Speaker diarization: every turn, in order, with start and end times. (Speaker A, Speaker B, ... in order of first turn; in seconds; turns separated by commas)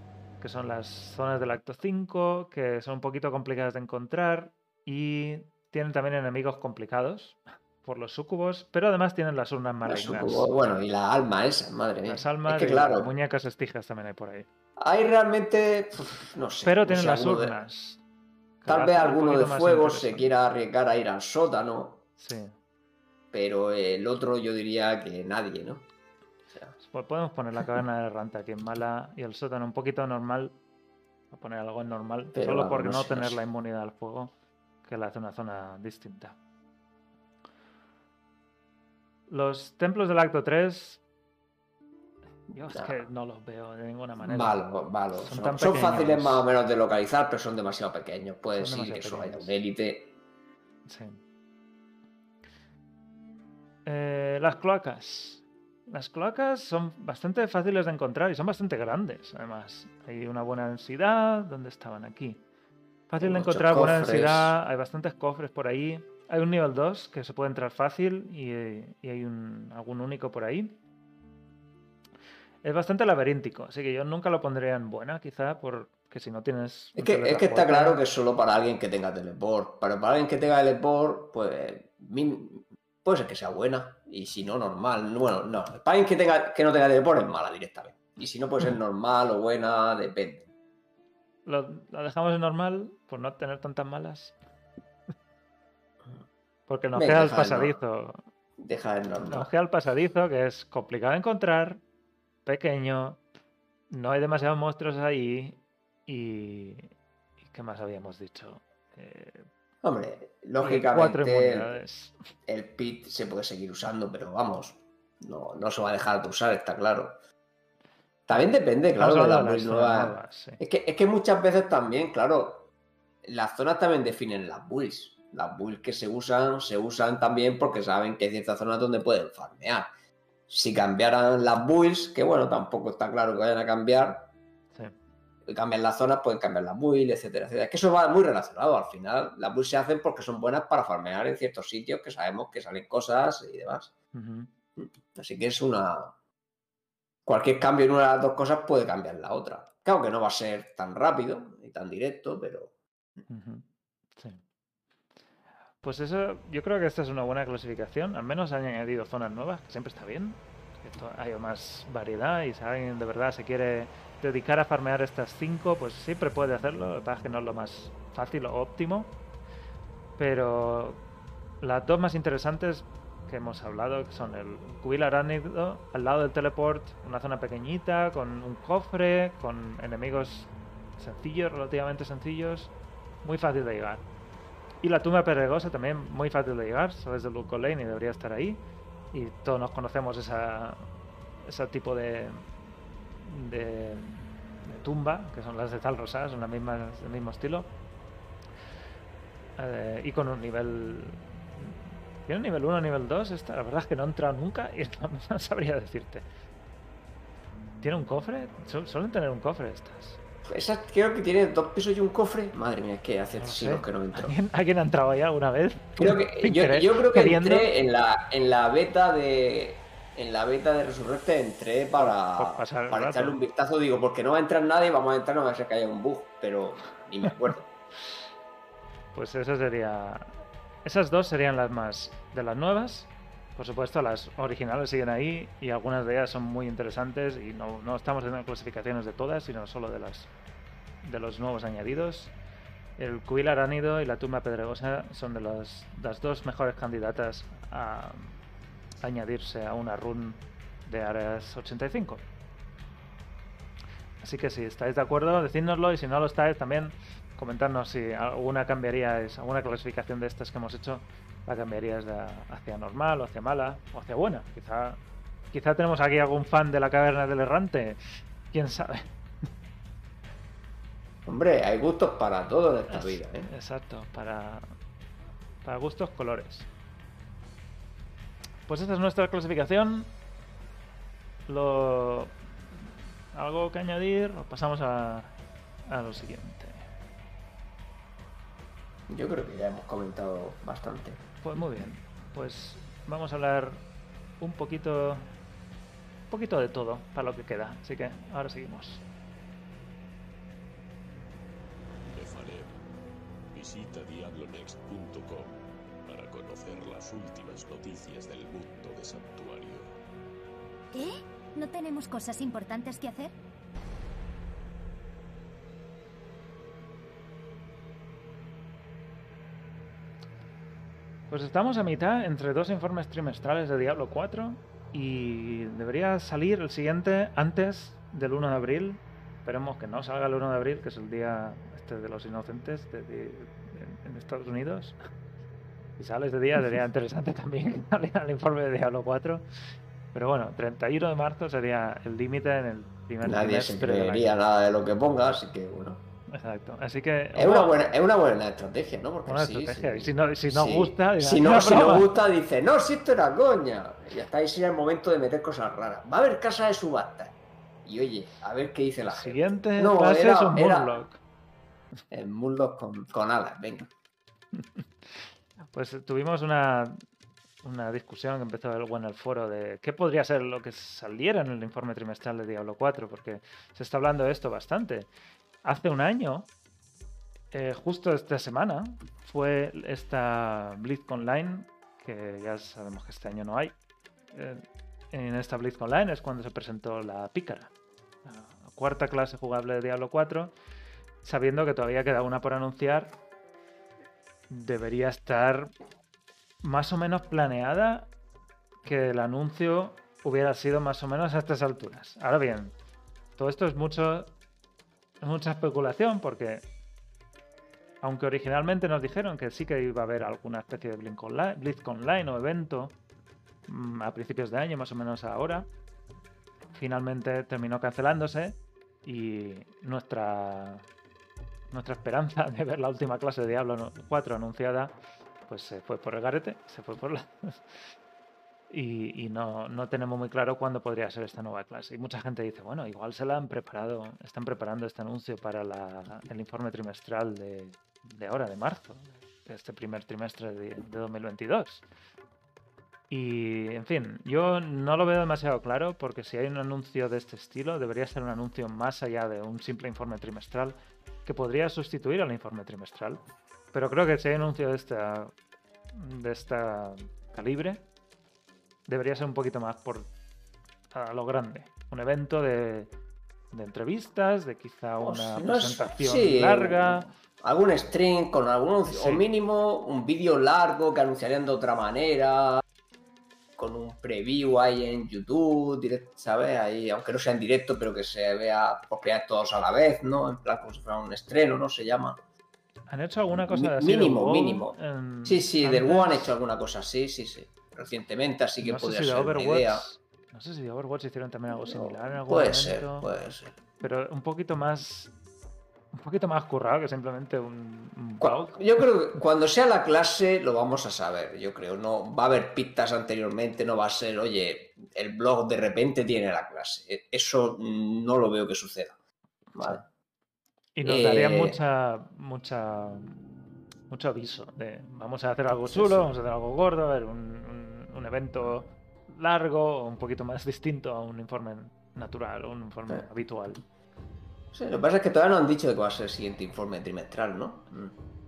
Speaker A: 0.4-10.5, Speaker B: 9.9-13.1, Speaker A: 12.1-14.5, Speaker B: 14.8-17.6, Speaker A: 16.6-18.0, Speaker A: 18.6-20.3, Speaker B: 18.7-22.1, Speaker A: 22.2-22.6, Speaker B: 23.3-25.9, Speaker A: 26.8-30.6, Speaker A: 31.3-34.3, Speaker B: 32.3-33.4, Speaker A: 34.8-36.4, Speaker A: 39.3-41.0, Speaker A: 42.5-44.6, Speaker B: 42.7-43.0, Speaker B: 44.2-50.1, Speaker A: 45.1-46.4, Speaker A: 48.5-49.6, Speaker A: 50.9-51.2, Speaker A: 53.9-62.4, Speaker A: 63.1-70.8, Speaker B: 63.2-64.5, Speaker A: 72.6-78.0, Speaker B: 77.0-90.5, Speaker A: 91.5-94.3, Speaker A: 96.7-98.2, Speaker B: 97.0-97.8, Speaker B: 98.6-99.5, Speaker A: 99.3-101.8, Speaker A: 102.4-103.2, Speaker A: 103.9-106.9, Speaker A: 107.5-109.5, Speaker B: 109.8-111.7, Speaker A: 110.6-112.2, Speaker B: 112.5-117.2, Speaker B: 118.3-122.7, Speaker A: 118.3-120.6, Speaker B: 123.2-129.9, Speaker B: 130.5-134.3, Speaker B: 135.4-143.9, Speaker A: 144.1-144.5, Speaker B: 144.8-146.1, Speaker B: 147.3-152.7, Speaker A: 153.3-153.6, Speaker A: 154.2-154.4, Speaker A: 155.8-169.2, Speaker A: 170.2-171.1, Speaker A: 171.6-184.1, Speaker A: 184.8-190.9, Speaker A: 191.4-192.4, Speaker A: 193.2-197.7, Speaker A: 199.6-206.3, Speaker A: 207.8-210.2, Speaker B: 210.4-214.3, Speaker A: 213.3-217.7, Speaker B: 216.0-227.7, Speaker A: 221.9-223.4, Speaker A: 229.1-240.3, Speaker A: 241.0-242.3, Speaker A: 243.0-248.4, Speaker A: 249.0-252.3, Speaker A: 254.2-265.0, Speaker A: 265.5-269.1, Speaker B: 271.3-273.5, Speaker A: 272.9-274.7, Speaker A: 275.6-276.7, Speaker A: 278.7-280.1, Speaker A: 281.5-282.4, Speaker A: 283.3-285.3, Speaker A: 285.9-286.8, Speaker B: 289.1-291.6, Speaker A: 291.4-293.9, Speaker A: 294.4-295.3, Speaker A: 296.3-299.0, Speaker C: 302.1-302.7, Speaker C: 303.5-305.6, Speaker C: 306.1-309.9, Speaker D: 310.9-313.3, Speaker A: 321.3-335.0, Speaker A: 336.0-339.5, Speaker A: 340.1-344.3, Speaker B: 343.2-346.0, Speaker A: 346.3-347.7, Speaker B: 347.3-360.9, Speaker A: 349.3-352.1, Speaker A: 359.1-361.2, Speaker B: 362.1-363.9, Speaker A: 365.1-367.0, Speaker A: 367.6-375.1, Speaker A: 375.6-376.5, Speaker A: 377.5-383.8, Speaker A: 384.3-387.7, Speaker A: 388.2-390.5, Speaker A: 391.2-393.1, Speaker A: 394.5-395.7, Speaker A: 396.6-398.1, Speaker A: 398.8-402.7, Speaker A: 403.4-404.3, Speaker A: 405.2-406.7, Speaker A: 408.0-412.9, Speaker A: 413.7-415.7, Speaker A: 416.7-420.9, Speaker A: 421.7-427.9, Speaker A: 428.7-441.8, Speaker A: 443.1-453.2, Speaker A: 453.7-455.3, Speaker A: 455.9-457.8, Speaker A: 458.9-460.1, Speaker A: 460.9-462.9, Speaker A: 463.5-467.1, Speaker B: 465.0-472.6, Speaker A: 468.9-469.2, Speaker B: 473.6-482.2, Speaker A: 482.9-486.3, Speaker B: 483.3-489.9, Speaker A: 488.6-493.1, Speaker B: 491.5-493.6, Speaker A: 493.8-495.1, Speaker A: 495.9-498.7, Speaker B: 498.2-508.9, Speaker B: 509.6-509.8, Speaker A: 510.8-513.1, Speaker B: 510.8-511.6, Speaker A: 513.9-523.6, Speaker B: 515.7-516.1, Speaker B: 524.5-527.9